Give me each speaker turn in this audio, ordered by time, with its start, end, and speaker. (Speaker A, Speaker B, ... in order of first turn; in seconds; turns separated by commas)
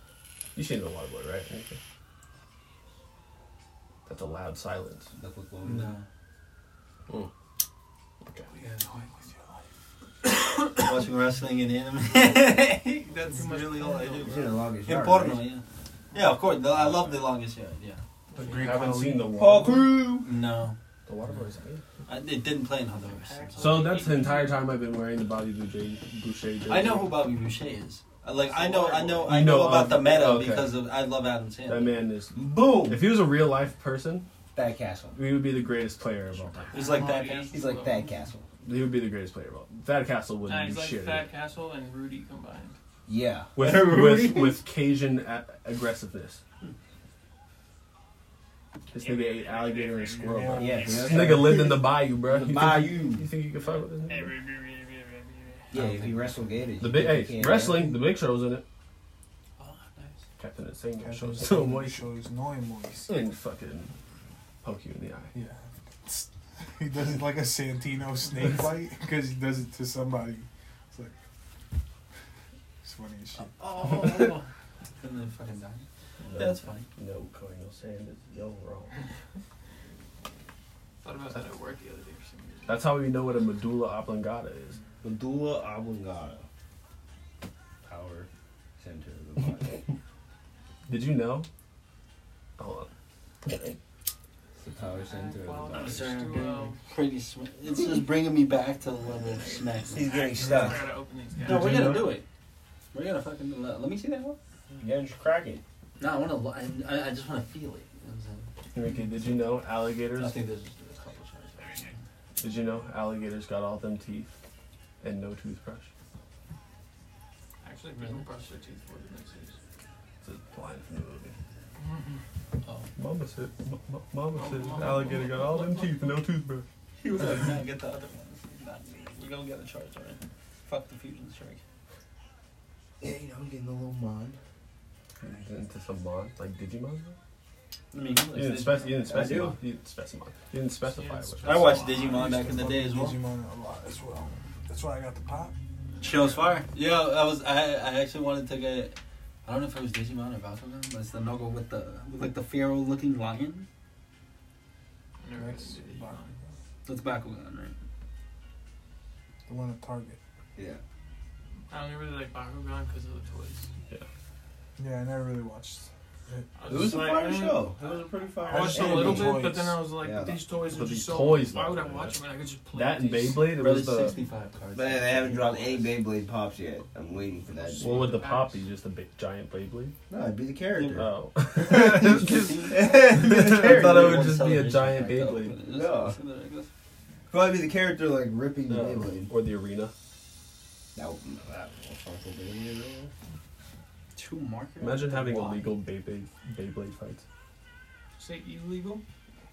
Speaker A: 0.5-1.8, Speaker A: 4.0-5.1, Speaker B: 5.2-6.0, Speaker C: 5.6-6.0, Speaker D: 8.5-9.3, Speaker D: 10.2-10.8, Speaker C: 10.8-18.0, Speaker D: 13.2-14.6, Speaker B: 14.3-15.4, Speaker D: 18.3-19.8, Speaker A: 18.4-19.9, Speaker B: 19.4-20.3, Speaker C: 20.2-20.8, Speaker A: 21.1-21.8, Speaker C: 22.1-23.9, Speaker D: 23.0-24.6, Speaker A: 23.6-27.1, Speaker C: 26.7-32.0, Speaker D: 28.4-29.3, Speaker A: 29.3-30.7, Speaker A: 31.6-34.2, Speaker B: 32.3-33.1, Speaker B: 34.5-35.2, Speaker A: 35.1-36.9, Speaker D: 36.6-38.1, Speaker C: 36.7-37.5, Speaker B: 37.5-38.5, Speaker A: 38.6-41.3, Speaker D: 40.5-42.8, Speaker B: 43.1-43.5, Speaker A: 43.5-46.4, Speaker C: 43.6-44.6, Speaker A: 48.9-54.4, Speaker D: 49.0-51.3, Speaker E: 50.2-51.3, Speaker B: 50.6-53.3, Speaker D: 53.6-55.7, Speaker C: 55.7-56.5, Speaker B: 55.7-57.9, Speaker A: 56.8-58.6, Speaker C: 59.6-60.2, Speaker A: 60.4-62.0, Speaker E: 61.0-63.2, Speaker A: 63.1-63.9, Speaker A: 64.6-65.3, Speaker E: 65.3-71.1, Speaker E: 72.8-73.5, Speaker C: 73.6-74.5, Speaker C: 75.0-76.9, Speaker A: 76.2-78.9, Speaker D: 81.0-82.9, Speaker A: 82.7-84.8, Speaker B: 85.0-86.4, Speaker B: 87.8-88.3, Speaker B: 88.8-89.8, Speaker A: 90.9-91.5, Speaker A: 92.6-92.9, Speaker B: 94.6-96.2, Speaker D: 94.9-96.8, Speaker C: 95.7-100.7, Speaker D: 99.2-101.9, Speaker B: 99.9-100.9, Speaker A: 101.4-102.2, Speaker C: 101.4-102.2, Speaker C: 102.9-104.4, Speaker B: 104.8-105.6, Speaker C: 106.0-108.5, Speaker A: 108.7-110.4, Speaker C: 110.1-112.0, Speaker A: 112.4-114.3, Speaker A: 115.0-115.9, Speaker D: 117.6-119.6, Speaker C: 118.0-118.3, Speaker A: 120.2-121.3, Speaker D: 121.8-122.2, Speaker A: 123.0-126.7, Speaker D: 124.3-126.0, Speaker C: 127.0-131.6, Speaker B: 133.0-134.4, Speaker A: 135.2-137.2, Speaker C: 137.9-139.0, Speaker A: 138.3-141.8, Speaker B: 139.1-139.6, Speaker D: 140.8-142.3, Speaker C: 141.4-143.2, Speaker E: 142.0-145.6, Speaker D: 146.0-146.6, Speaker C: 146.0-153.7, Speaker D: 155.2-156.3, Speaker E: 155.3-156.5, Speaker C: 156.8-157.7, Speaker E: 159.5-160.2, Speaker D: 161.7-163.7, Speaker E: 164.8-166.5, Speaker D: 166.6-173.5, Speaker B: 166.7-170.5, Speaker A: 166.7-167.1, Speaker E: 168.5-169.8, Speaker A: 170.7-172.2, Speaker A: 172.7-174.1, Speaker C: 173.5-176.0, Speaker B: 174.7-178.2, Speaker D: 177.5-178.6, Speaker A: 177.8-179.9, Speaker B: 180.1-181.1, Speaker C: 180.7-181.1, Speaker A: 180.9-185.6, Speaker C: 181.6-186.7, Speaker B: 181.7-184.3, Speaker B: 185.7-186.2, Speaker B: 187.3-189.3, Speaker A: 188.7-189.9, Speaker B: 190.9-193.1, Speaker C: 194.1-195.6, Speaker A: 194.8-197.2, Speaker D: 198.2-199.0